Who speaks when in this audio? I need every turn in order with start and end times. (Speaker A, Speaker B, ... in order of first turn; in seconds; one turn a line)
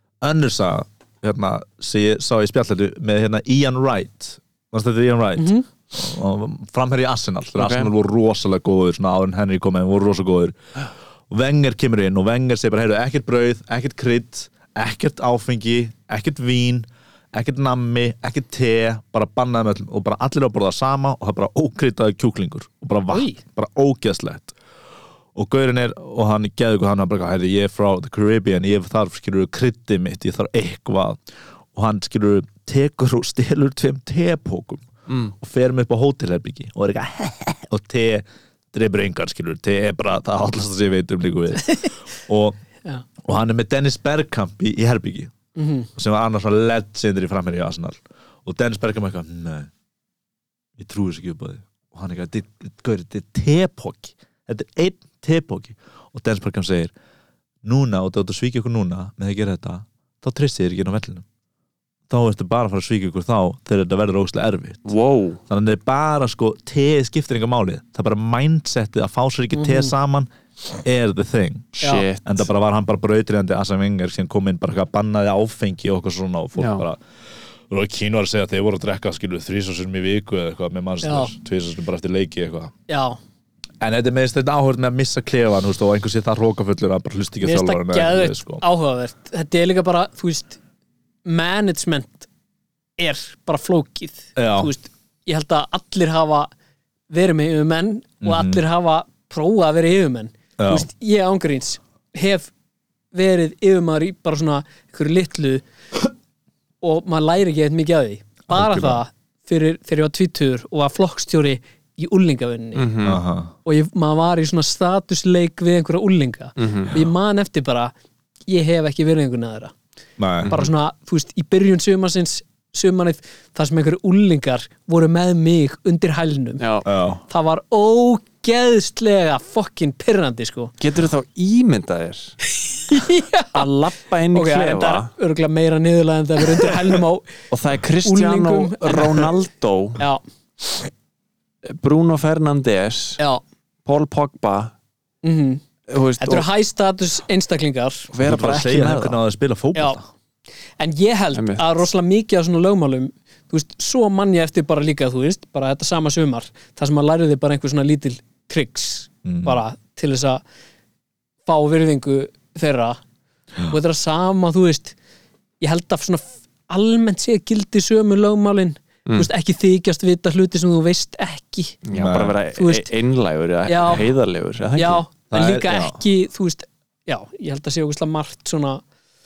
Speaker A: 0.2-10.6
Speaker B: 5.4-5.6
Speaker C: 7.6-7.9
Speaker A: 11.3-24.6
Speaker B: 23.1-23.4
Speaker A: 25.3-31.2
Speaker A: 31.7-34.9
Speaker C: 35.1-35.3
Speaker A: 35.4-42.6
Speaker A: 43.2-45.3
Speaker B: 45.5-45.9
Speaker A: 46.0-49.7
Speaker A: 50.8-56.9
Speaker A: 57.6-61.2
Speaker A: 62.1-64.9
Speaker C: 64.8-65.4
Speaker A: 65.5-70.3
Speaker B: 69.5-69.9
Speaker A: 70.8-77.0
Speaker C: 71.8-72.5
Speaker C: 76.6-76.8
Speaker A: 77.7-82.7
Speaker B: 81.0-81.3
Speaker B: 82.9-83.2
Speaker A: 83.8-88.6
Speaker B: 87.4-90.6
Speaker B: 91.2-92.3
Speaker B: 93.0-96.5
Speaker A: 94.3-94.7
Speaker B: 97.1-102.5
Speaker A: 98.2-98.6
Speaker A: 100.6-100.9
Speaker B: 103.1-105.6
Speaker B: 106.8-112.9
Speaker A: 108.5-109.0
Speaker C: 112.7-113.2
Speaker A: 113.0-113.5
Speaker B: 113.6-117.9
Speaker C: 116.6-116.9
Speaker B: 118.5-119.7
Speaker A: 120.2-120.5
Speaker B: 120.5-126.7
Speaker C: 126.6-126.8
Speaker A: 126.8-127.2
Speaker B: 127.3-130.7
Speaker C: 130.8-132.4
Speaker B: 132.6-133.7
Speaker C: 133.6-135.1
Speaker B: 134.3-137.3
Speaker C: 137.5-140.0
Speaker B: 138.0-139.3
Speaker C: 141.6-143.2
Speaker C: 143.8-144.7
Speaker B: 145.2-145.6
Speaker C: 145.9-146.4
Speaker B: 146.2-148.1
Speaker C: 148.1-149.2
Speaker A: 148.2-150.1
Speaker B: 150.8-160.4
Speaker C: 151.3-151.7
Speaker A: 159.2-159.6
Speaker B: 161.4-163.0
Speaker B: 163.7-165.0
Speaker B: 165.6-171.8
Speaker C: 171.8-175.1
Speaker A: 171.9-172.4
Speaker B: 172.6-172.9
Speaker B: 173.7-174.0
Speaker B: 174.8-178.8
Speaker A: 175.3-176.0